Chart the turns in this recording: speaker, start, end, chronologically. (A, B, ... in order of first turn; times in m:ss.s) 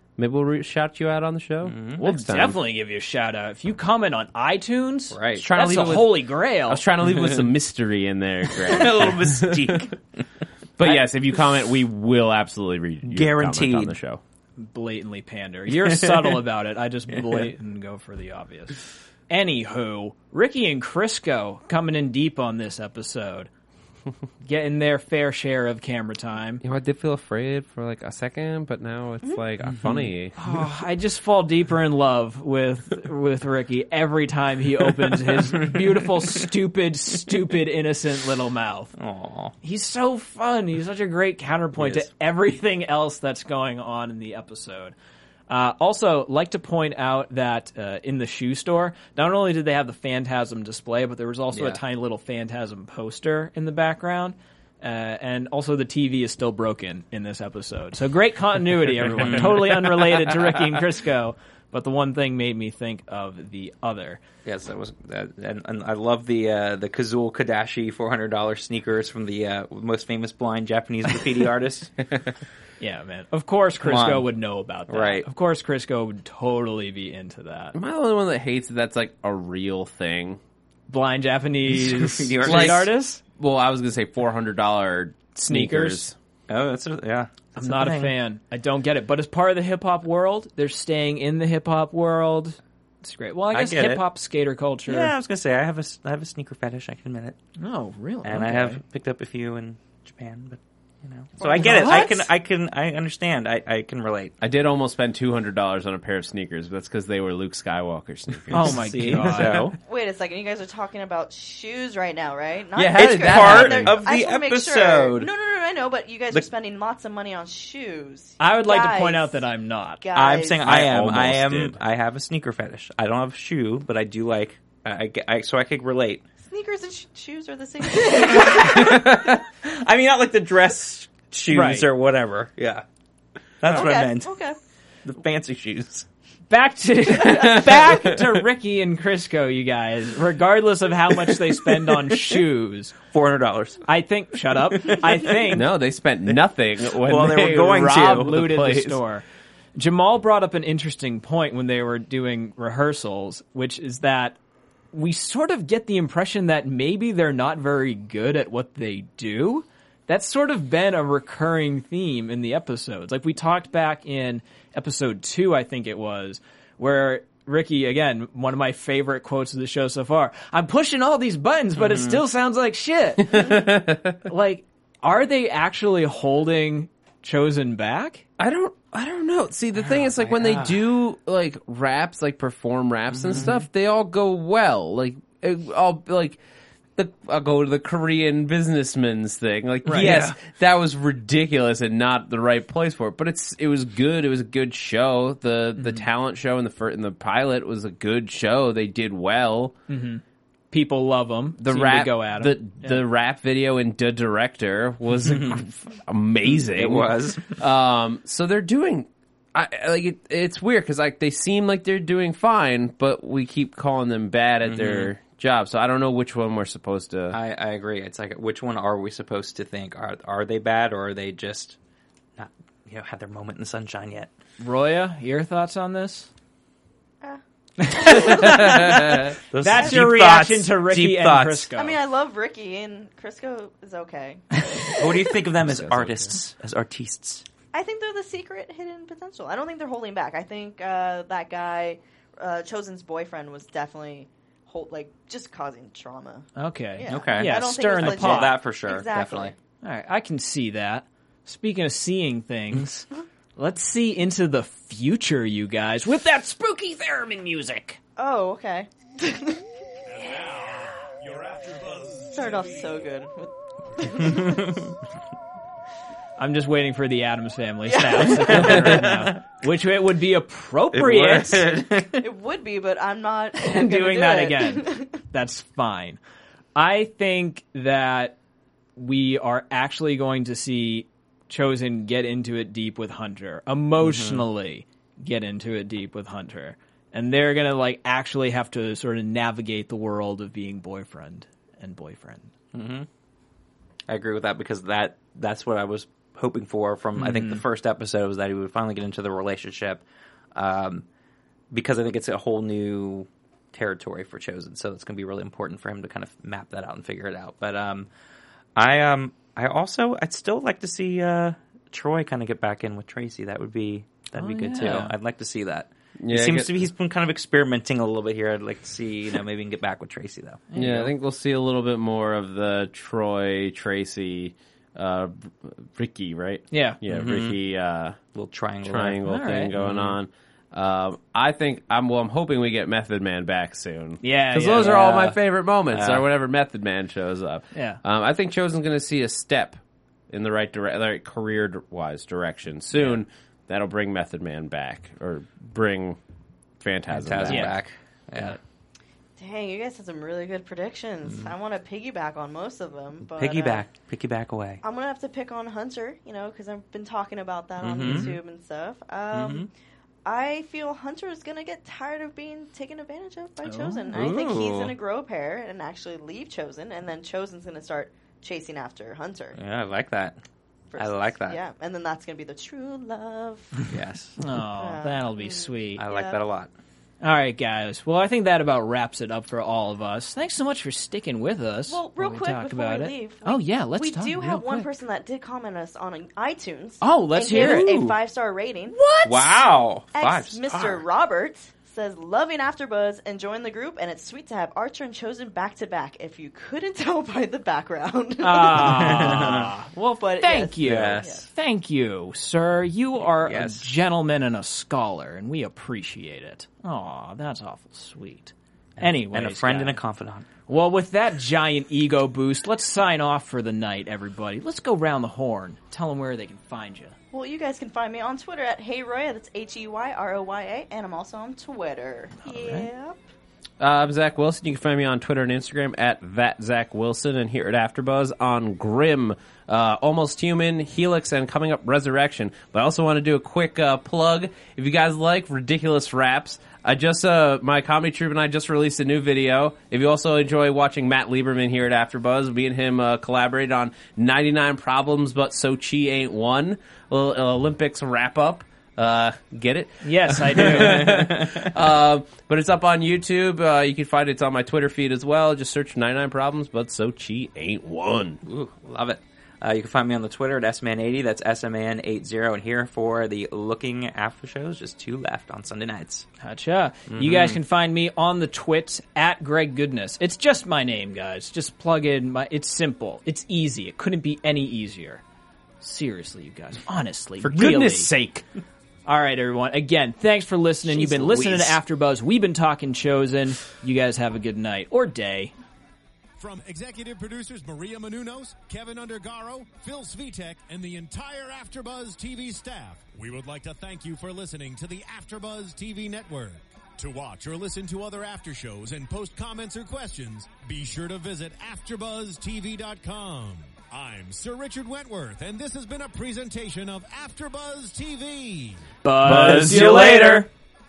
0:00.2-0:02.6 A
0:01.6-0:02.0 B
0:02.0-0:06.8 C
0:05.1-0:05.4 B
0:05.4-0:09.8 A
0:07.0-0:07.5 B
0:08.6-0:10.2 B
0:10.8-0:14.2 A
0:13.1-0:14.0 B
0:14.6-0:23.5 C
0:15.8-0:16.4 B
0:17.1-0:17.5 B
0:24.4-0:26.6 C
0:26.6-0:30.3 A
0:29.6-0:30.1 B
0:30.3-0:38.9 C
0:35.5-0:36.4 B
0:39.0-0:39.5 B
0:39.6-0:45.0 C
0:41.8-0:42.1 B
0:45.5-1:04.2 C
0:51.5-0:51.8 B
0:59.1-1:00.0 B
1:04.4-1:12.3 B
1:12.8-1:17.7 C
1:13.8-1:14.3 B
1:14.9-1:15.2 B
1:17.7-1:20.4 A
1:20.9-1:23.2 C
1:21.7-1:22.9 B
1:22.4-1:26.1 A
1:25.4-1:26.1 C
1:26.5-1:28.1 B
1:27.6-1:35.1 C
1:33.5-1:34.0 B
1:34.9-1:37.4 B
1:37.6-1:38.8 C
1:38.2-1:44.3 B
1:41.4-1:42.2 D
1:41.6-1:42.3 C
1:44.4-1:49.4 A
1:48.4-1:49.8 B
1:48.5-1:49.7 C
1:49.8-1:59.4 D
1:52.7-1:54.0 A
1:52.9-1:55.3 B
1:58.4-2:00.0 C
2:00.0-2:00.6 D
2:00.1-2:06.2 B
2:00.6-2:01.8 A
2:06.4-2:09.0 D
2:08.2-2:12.8 B
2:08.9-2:09.3 A
2:11.5-2:11.9 C
2:13.6-2:14.4 B
2:13.7-2:14.6 D
2:15.0-2:16.0 B
2:16.5-2:22.9 C
2:17.4-2:18.0 A
2:23.1-2:23.8 B
2:23.8-2:25.6 C
2:24.5-2:25.4 B
2:25.5-2:29.0 A
2:27.0-2:28.4 B
2:27.7-2:29.2 C
2:29.7-2:34.4 C
2:34.9-2:58.2 C
2:51.8-2:52.2 B
2:53.3-2:54.0 A
2:58.4-3:06.4 A
2:59.7-3:00.8 B
3:03.1-3:03.6 B
3:07.0-3:19.7 A
3:09.8-3:10.2 C
3:09.9-3:10.4 B
3:15.8-3:16.0 C
3:19.9-3:23.0 C
3:21.6-3:37.4 A
3:25.2-3:25.6 B
3:26.4-3:27.5 B
3:34.6-3:35.1 B
3:37.3-3:41.8 B
3:42.4-3:44.3 B
3:44.6-3:46.3 C
3:47.2-3:48.8 D
3:47.8-3:52.0 C
3:48.4-3:49.3 A
3:49.5-3:51.7 B
3:49.7-3:50.0 D
3:51.7-3:54.4 D
3:55.0-3:57.4 B
3:55.6-3:56.4 A
3:57.7-4:09.5 D
4:06.6-4:08.6 C
4:07.1-4:09.5 B
4:09.8-4:18.0 C
4:18.2-4:19.6 D
4:20.1-4:23.1 E
4:22.3-4:24.8 D
4:24.3-4:24.6 B
4:26.4-4:31.7 C
4:27.9-4:28.8 D
4:28.5-4:29.1 B
4:30.9-4:32.3 B
4:32.2-4:35.1 D
4:33.6-4:36.2 C
4:36.7-4:38.4 C
4:39.0-4:52.5 C
4:44.0-4:44.5 B
4:52.7-4:53.1 B
4:54.1-5:00.0 B
4:57.2-4:57.6 C
5:00.5-5:01.0 B
5:01.7-5:08.1 B
5:08.8-5:20.6 B
5:14.4-5:15.1 C
5:16.2-5:16.9 A
5:20.7-5:21.1 C
5:20.8-5:28.2 A
5:26.7-5:27.0 C
5:27.1-5:27.6 B
5:28.3-5:30.2 B
5:28.8-5:39.8 A
5:29.2-5:29.7 C
5:34.2-5:35.1 C
5:34.8-5:35.4 B
5:35.9-5:36.2 B
5:37.7-5:38.0 C
5:40.3-5:46.2 A
5:42.9-5:43.2 B
5:46.8-5:47.8 A
5:47.1-5:48.6 B
5:47.5-5:47.7 C
5:49.4-5:53.9 D
5:53.2-5:54.8 B
5:54.8-5:59.7 D
5:57.8-5:58.3 B
5:58.0-5:58.3 C
5:59.3-5:59.7 B
6:00.2-6:09.6 D
6:03.6-6:04.4 C
6:04.1-6:04.9 B
6:09.6-6:10.4 B
6:10.9-6:13.9 D
6:11.0-6:11.6 B
6:13.9-6:14.4 B
6:14.4-6:16.0 C
6:14.7-6:16.4 D
6:16.0-6:16.7 B
6:17.2-6:24.9 C
6:21.9-6:29.0 D
6:27.0-6:28.0 C
6:27.6-6:28.2 B
6:28.9-6:29.6 C
6:29.2-6:31.0 B
6:30.1-6:39.6 D
6:38.4-6:50.0 C
6:38.8-6:39.7 B
6:40.2-6:41.5 D
6:40.8-6:41.4 B
6:43.3-6:43.9 B
6:49.0-6:50.4 B
6:50.7-6:57.1 C
6:57.3-7:03.2 D
7:02.4-7:02.9 C
7:03.8-7:38.4 A
7:30.0-7:31.1 C
7:30.6-7:31.6 B
7:38.4-7:46.2 B
7:46.4-7:55.2 C
7:47.1-7:47.6 B
7:55.8-7:58.1 C
7:57.4-7:58.4 A
7:59.0-8:05.5 C
8:00.8-8:01.8 B
8:06.4-8:28.9 E
8:29.0-8:30.5 C
8:29.2-8:29.9 B
8:29.2-8:30.4 A